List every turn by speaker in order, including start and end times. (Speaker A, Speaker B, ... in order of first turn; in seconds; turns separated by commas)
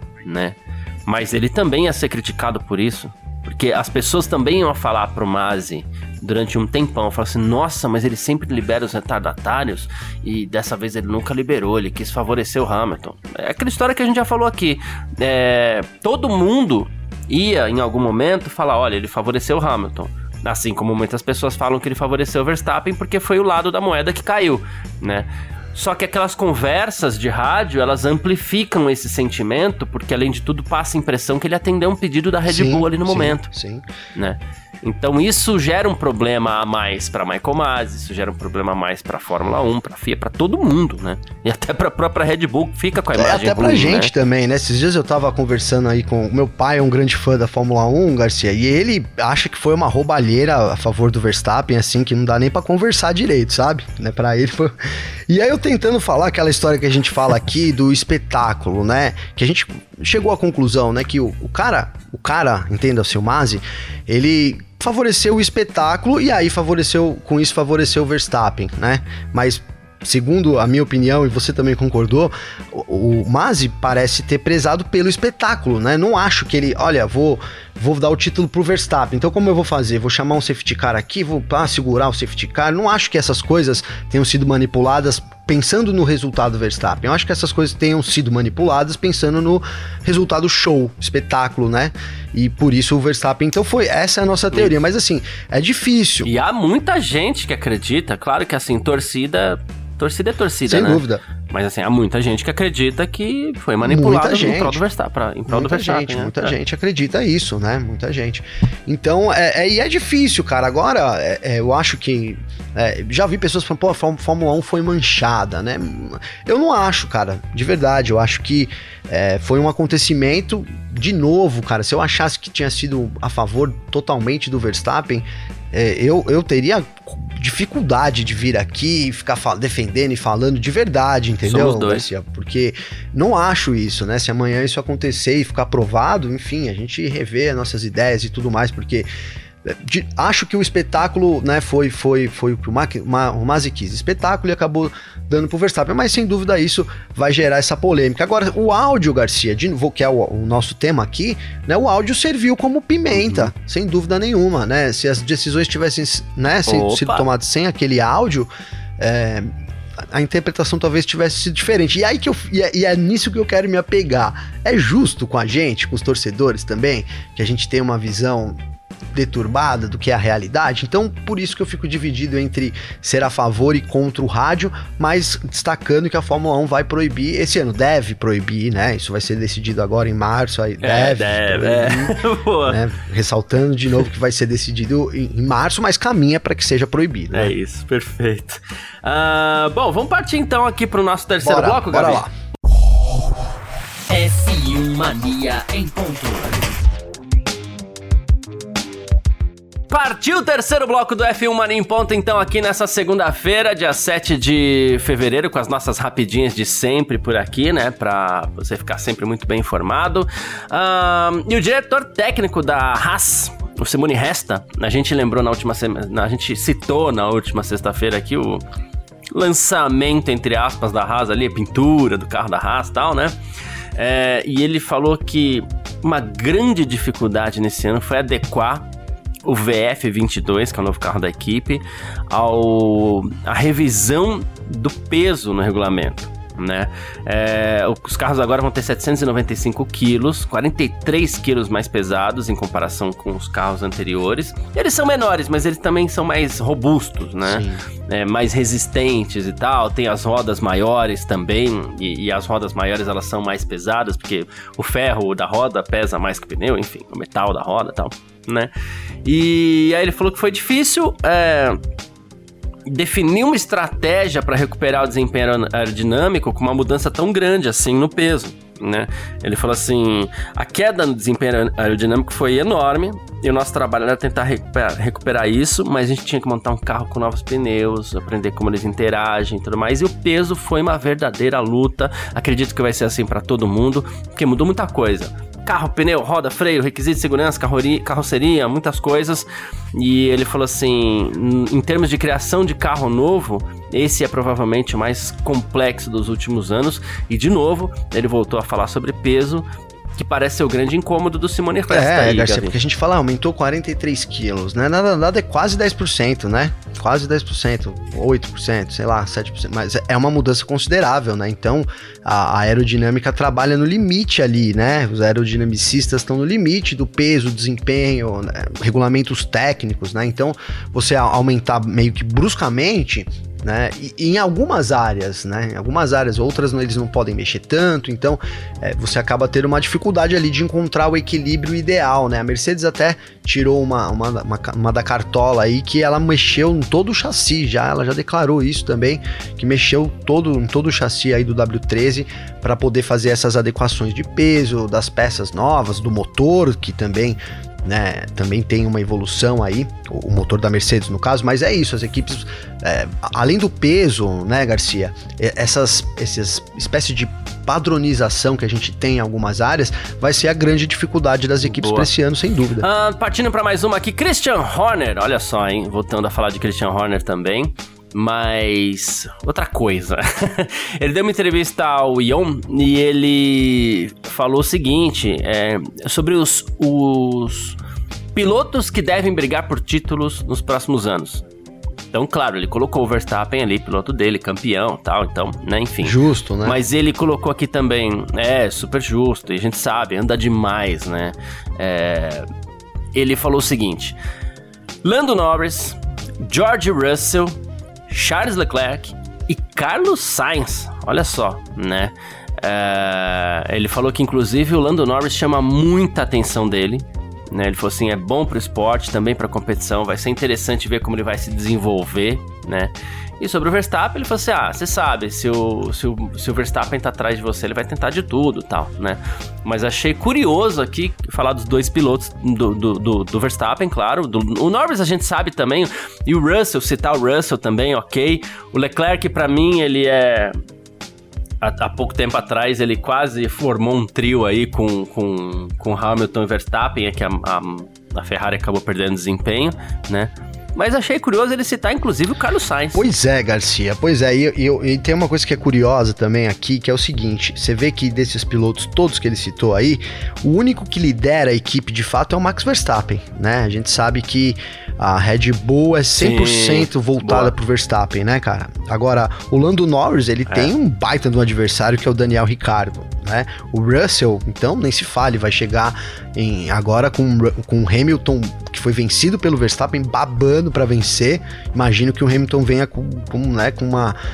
Speaker A: 0.2-33.5, Speaker B: 32.5-33.9, Speaker A: 34.1-44.1, Speaker B: 43.1-54.8, Speaker B: 55.3-96.3, Speaker A: 96.2-106.5, Speaker B: 100.7-101.2, Speaker B: 103.8-104.8, Speaker B: 105.5-139.1, Speaker A: 131.4-132.0, Speaker B: 139.6-159.5, Speaker A: 153.1-153.5, Speaker A: 156.7-157.2, Speaker B: 160.1-168.6, Speaker B: 169.1-187.5, Speaker A: 180.8-182.8, Speaker A: 187.3-192.2, Speaker B: 191.4-192.3, Speaker A: 194.1-196.7, Speaker A: 199.9-218.6, Speaker A: 219.3-223.3, Speaker A: 223.9-228.9, Speaker A: 229.4-258.7, Speaker B: 247.4-247.8, Speaker A: 259.2-261.8, Speaker A: 262.9-299.6, Speaker A: 300.2-302.7, Speaker B: 301.9-362.9, Speaker A: 361.6-362.1, Speaker A: 362.8-377.8, Speaker A: 378.3-381.4, Speaker A: 382.1-392.5, Speaker B: 386.0-386.8, Speaker A: 393.1-394.1, Speaker A: 395.0-397.6, Speaker A: 398.1-430.6, Speaker A: 431.6-443.1, Speaker B: 442.9-474.1, Speaker A: 456.2-457.5, Speaker A: 460.5-460.7